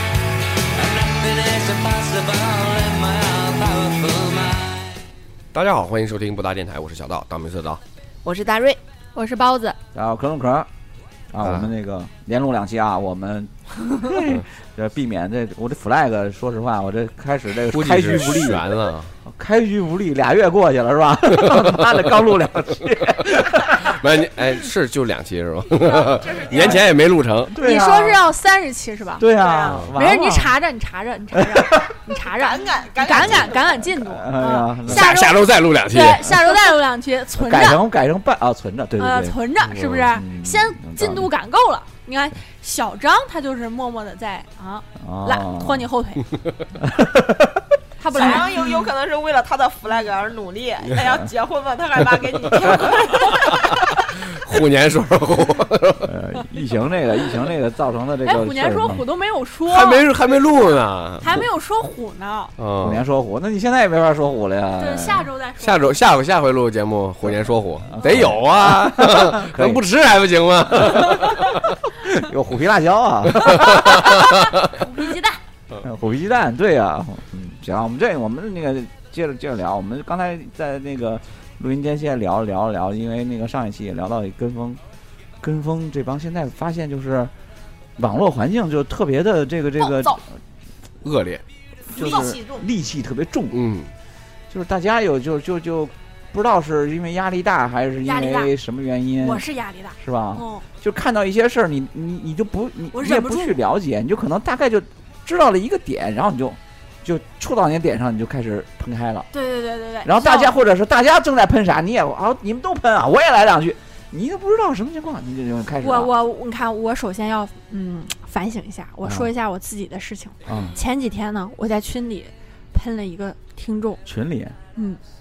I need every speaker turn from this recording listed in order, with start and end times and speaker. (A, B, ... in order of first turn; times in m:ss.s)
0:00.7-0:05.0 A
0:05.5-0:07.8 B
0:08.2-0:08.8 C
0:09.1-0:09.8 D
0:09.9-0:10.7 E
0:11.3-0:18.7 E
0:11.4-0:11.7 B
0:17.7-0:19.1 B
0:19.2-0:24.0 E
0:21.4-0:21.9 B
0:23.6-0:27.5 B
0:25.8-0:26.9 C
0:27.5-0:28.2 E
0:27.6-0:29.3 D
0:29.2-0:30.5 E
0:29.3-0:29.8 C
0:29.9-0:37.8 D
0:31.3-0:31.9 E
0:32.1-0:33.8 C
0:33.1-0:35.1 E
0:34.9-0:36.3 B
0:37.4-0:41.3 E
0:39.0-0:46.3 D
0:45.0-0:45.9 E
0:46.8-0:47.7 E
0:48.0-0:48.8 D
0:48.1-0:53.9 C
0:53.0-0:53.3 D
0:53.4-0:56.1 B
0:56.0-0:59.0 E
0:58.2-1:00.0 D
0:59.7-1:01.4 B
1:01.2-1:02.5 D
1:02.6-1:03.0 B
1:02.8-1:05.3 E
1:04.8-1:05.9 D
1:05.6-1:11.7 B
1:07.9-1:09.8 E
1:10.7-1:11.4 E
1:12.0-1:14.3 E
1:13.4-1:14.0 B
1:14.0-1:15.4 D
1:15.8-1:24.8 E
1:25.4-1:27.3 E
1:28.0-1:30.2 E
1:29.8-1:30.2 D
1:31.0-1:31.4 B
1:31.9-1:33.6 E
1:31.9-1:32.6 C
1:33.5-1:33.9 B
1:34.5-1:39.4 E
1:38.0-1:38.5 D
1:39.2-1:40.6 D
1:40.0-1:49.3 E
1:42.9-1:43.6 D
1:49.3-1:50.6 D
1:50.0-1:56.1 E
1:55.8-2:04.0 D
1:59.0-1:59.3 E
2:00.4-2:00.8 E
2:04.0-2:04.6 E